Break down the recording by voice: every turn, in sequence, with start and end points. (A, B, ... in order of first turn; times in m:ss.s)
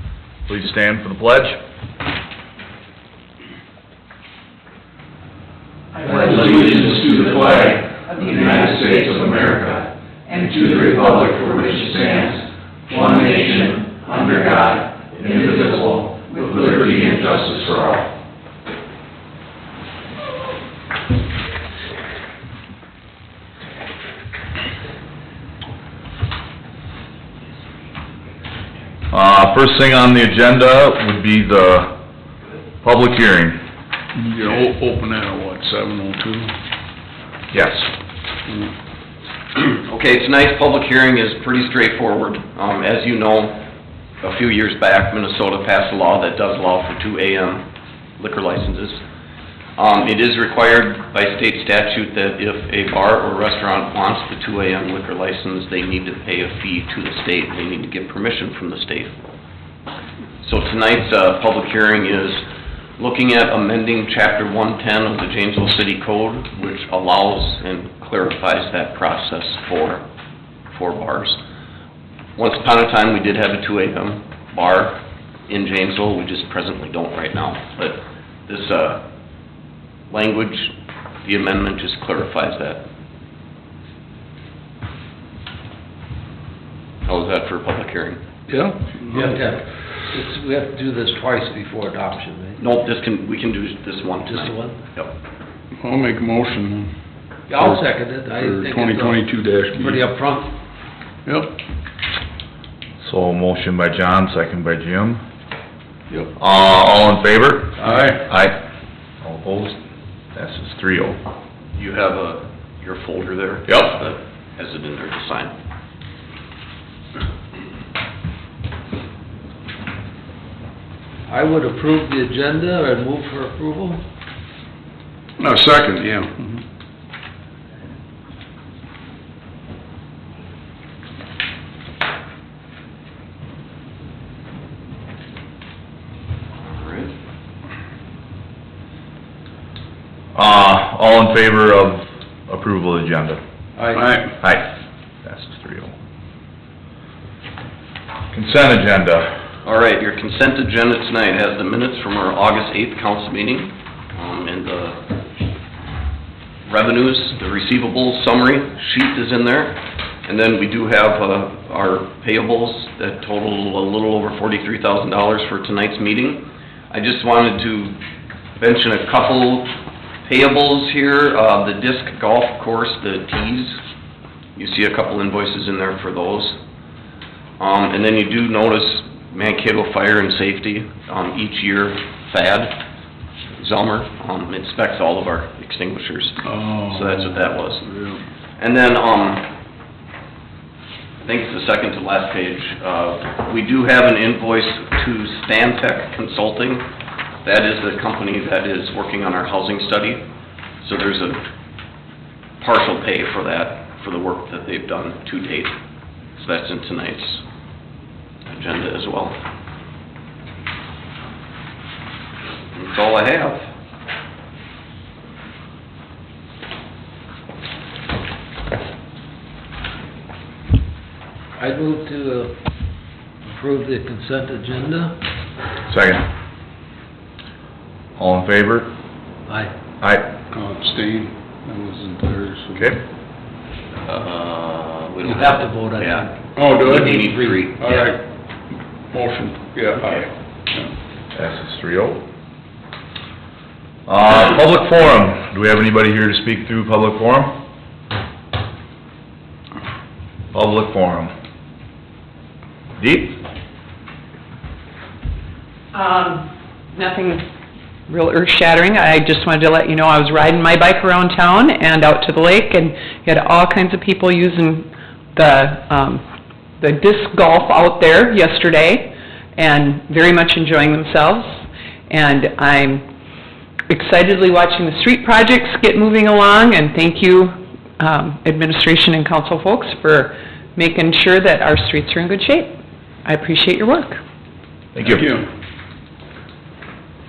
0:00.5-0:01.6 A
0:06.0-0:07.3 B
0:06.0-0:18.1 C
0:08.1-0:09.6 B
0:10.3-0:12.3 B
0:12.9-0:15.7 B
0:16.3-0:17.3 B
0:29.1-0:32.0 A
0:32.8-0:33.6 A
0:34.1-0:36.6 D
0:37.5-0:37.9 A
0:39.5-0:43.6 E
0:44.2-0:49.0 E
0:49.8-0:59.1 E
1:00.4-1:02.4 E
1:03.0-1:10.0 E
1:10.7-1:11.4 E
1:12.4-1:19.0 E
1:20.1-1:20.7 E
1:21.2-1:22.8 E
1:27.0-1:28.2 E
1:28.5-1:29.4 D
1:29.1-1:32.6 F
1:32.6-1:35.1 E
1:34.2-1:34.8 F
1:35.8-1:36.9 D
1:37.5-1:39.2 F
1:37.5-1:40.0 D
1:39.8-1:40.5 F
1:41.2-1:41.6 D
1:43.0-1:45.2 A
1:46.4-1:48.6 A
1:47.8-1:48.3 D
1:49.2-1:49.8 A
1:50.3-1:51.2 A
1:51.7-1:55.5 E
1:53.7-1:54.0 A
2:01.3-2:04.0 F
2:05.4-2:06.6 D
2:16.6-2:17.1 E
2:20.3-2:23.4 A
2:23.8-2:24.2 F
2:23.9-2:24.3 D
2:24.4-2:24.7 A
2:25.2-2:25.9 A
2:28.3-2:29.4 A
2:29.6-2:35.0 E
2:36.6-2:48.0 E
2:48.6-2:53.8 E
2:54.6-2:56.6 E
2:57.6-3:02.8 E
3:03.6-3:07.8 E
3:06.4-3:08.2 D
3:08.6-3:09.5 E
3:11.2-3:16.8 E
3:17.4-3:20.2 E
3:20.8-3:21.4 E
3:22.6-3:25.8 E
3:26.4-3:27.4 E
3:28.5-3:29.4 E
3:32.7-3:33.7 E
3:41.6-3:42.5 F
3:43.4-3:45.2 F
3:45.9-3:46.2 A
3:48.2-3:48.9 A
3:49.5-3:49.7 F
3:50.0-3:50.3 A
3:50.5-3:53.0 D
3:54.0-3:57.9 E
3:55.2-3:58.0 F
3:56.6-3:57.3 D
3:57.8-3:58.2 D
3:59.1-4:00.9 D
4:01.3-4:02.2 A
4:04.0-4:07.6 A
4:10.5-4:11.3 A
4:13.0-4:13.4 A
4:15.9-4:17.4 B
4:18.1-4:26.2 B
4:26.8-4:33.0 B
4:33.9-4:44.2 B
4:44.9-4:45.3 A
4:45.0-4:45.5 D